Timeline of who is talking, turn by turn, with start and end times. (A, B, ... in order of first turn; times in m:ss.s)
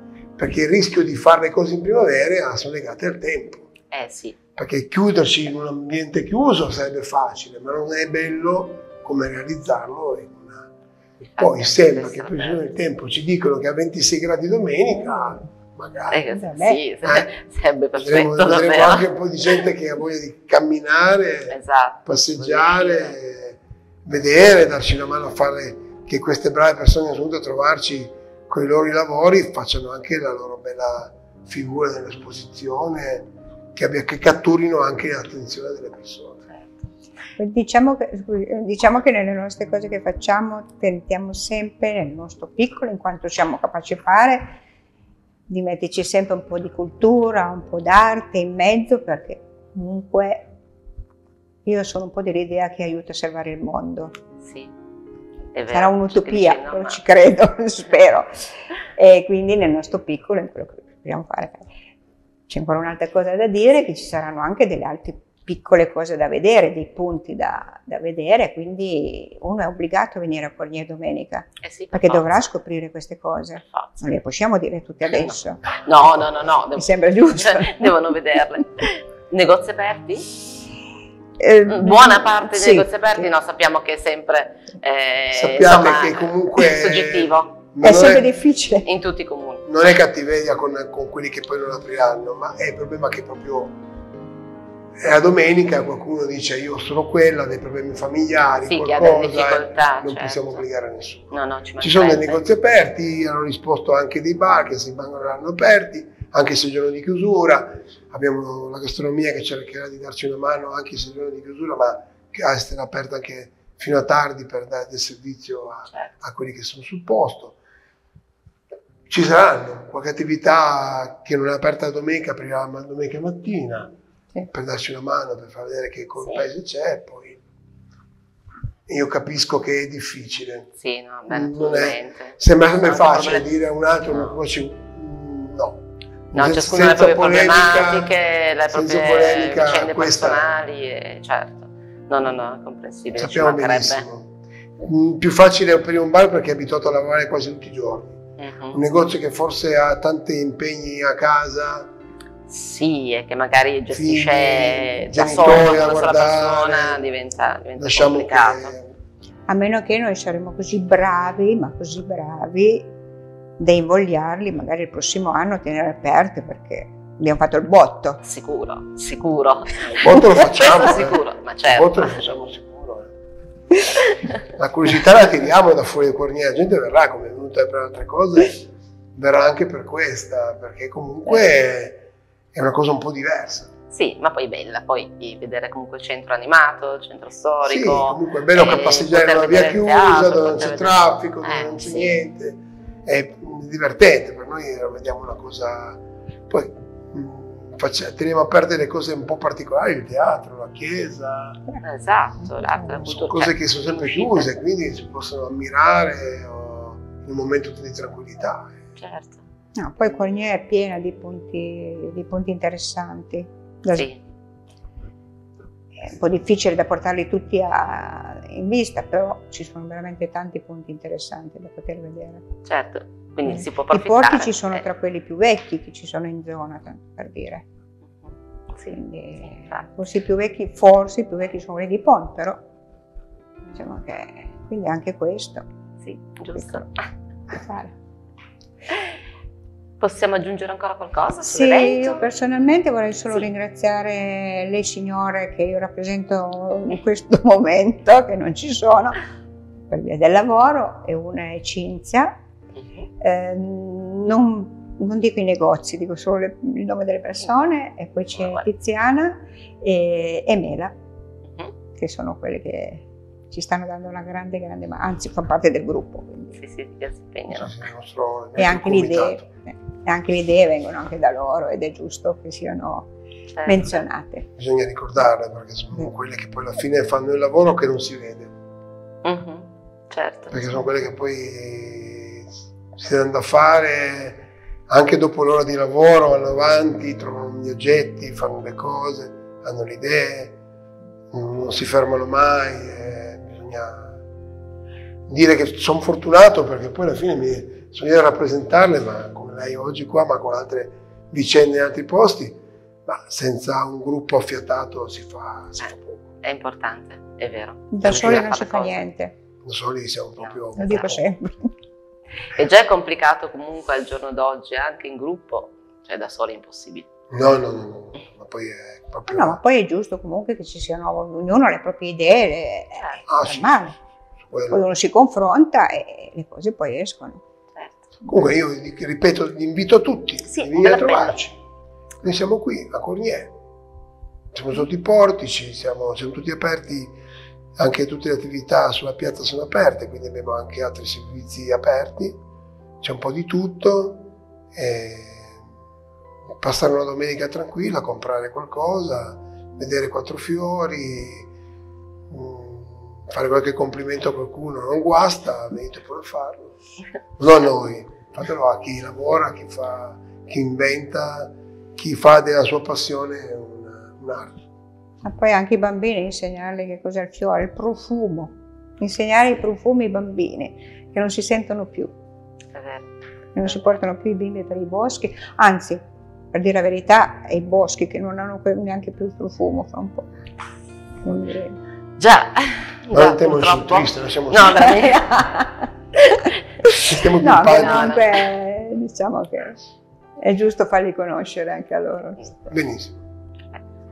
0:00.4-0:03.7 A
0:03.9-0:04.4 B
0:04.6-0:10.7 A
0:11.2-0:12.7 B
0:11.4-0:16.2 A
0:16.1-0:19.1 B
0:16.3-0:16.8 C
0:17.0-0:17.3 A
0:18.0-0:36.5 A
0:21.5-0:23.2 B
0:37.4-0:44.6 C
0:45.5-0:50.5 C
0:51.6-0:54.1 C
0:54.4-0:54.7 B
0:55.6-0:57.0 B
0:55.7-0:58.4 C
0:59.0-1:01.7 C
1:02.5-1:15.6 C
1:11.6-1:12.5 B
1:13.6-1:14.2 B
1:15.1-1:20.3 B
1:16.8-1:18.1 C
1:21.4-1:23.3 C
1:21.7-1:27.6 B
1:25.3-1:28.3 A
1:27.8-1:28.9 C
1:28.8-1:29.7 B
1:29.7-1:33.8 A
1:35.0-1:57.6 A
1:38.7-1:40.6 B
1:41.3-1:42.4 B
1:59.1-2:03.9 A
2:04.5-2:07.4 A
2:08.9-2:10.7 A
2:10.8-2:13.5 B
2:11.3-2:15.8 A
2:14.1-2:14.4 B
2:16.3-2:18.1 A
2:16.3-2:24.0 B
2:18.7-2:20.5 A
2:23.2-2:24.3 A
2:24.8-2:28.2 A
2:28.4-2:28.8 B
2:28.7-2:31.9 A
2:32.5-2:38.7 B
2:33.9-2:37.0 A
2:35.1-2:35.8 C
2:37.8-2:38.9 A
2:39.5-2:43.0 C
2:43.6-2:48.2 C
2:48.2-2:52.3 B
2:50.0-2:53.1 A
2:54.6-3:03.7 A
3:03.9-3:12.1 B
3:07.7-3:21.6 A
3:21.8-3:24.5 B
3:22.4-3:23.0 C
3:23.0-3:28.7 A
3:29.0-3:29.4 B
3:29.8-3:34.1 C
3:33.9-3:34.2 B
3:36.0-3:42.4 C
3:42.7-3:44.8 B
3:43.4-3:47.6 C
3:48.2-3:49.9 B
3:48.9-3:52.6 C
3:53.8-3:55.6 C
3:56.0-3:57.0 B
3:56.6-3:56.8 C
3:57.5-3:57.9 C
4:00.0-4:02.3 B
4:01.4-4:09.2 C
4:09.9-4:12.4 C
4:12.8-4:13.0 B
4:13.2-4:20.9 C
4:18.4-4:18.6 B
4:22.0-4:26.6 C
4:26.6-4:27.8 B
4:27.5-4:29.4 A
4:28.6-4:33.1 C
4:33.5-4:34.0 B
4:33.6-4:34.5 C
4:34.6-4:38.5 A
4:39.2-4:40.7 B
4:40.5-4:50.6 A
4:51.3-4:54.2 A
4:55.3-5:06.2 A
5:05.8-5:09.1 B
5:07.9-5:09.4 C
5:08.0-5:08.5 A
5:09.6-5:11.2 A
5:10.4-5:11.2 B
5:10.8-5:11.7 C
5:12.5-5:17.1 B
5:17.3-5:19.6 A
5:19.3-5:24.0 C
5:23.0-5:23.2 B
5:23.3-5:23.9 A
5:24.5-5:24.8 A
5:24.7-5:27.4 C
5:27.8-5:28.0 B
5:28.3-5:31.6 A
5:30.5-5:31.4 B
5:32.2-5:33.6 A
5:34.5-5:37.2 A
5:37.8-5:42.4 A
5:43.0-5:45.6 A
5:46.6-5:51.5 A
5:52.3-5:56.8 A
5:57.4-6:04.6 A
6:05.2-6:12.1 C
6:12.7-6:13.1 B
6:13.6-6:16.0 C
6:16.5-6:20.3 C
6:21.2-6:21.8 C
6:22.2-6:25.3 B
6:23.1-6:24.8 A
6:24.8-6:25.9 C
6:26.8-6:29.8 C
6:27.1-6:28.2 A
6:27.6-6:28.5 B
6:30.4-6:32.8 C
6:32.7-6:33.2 A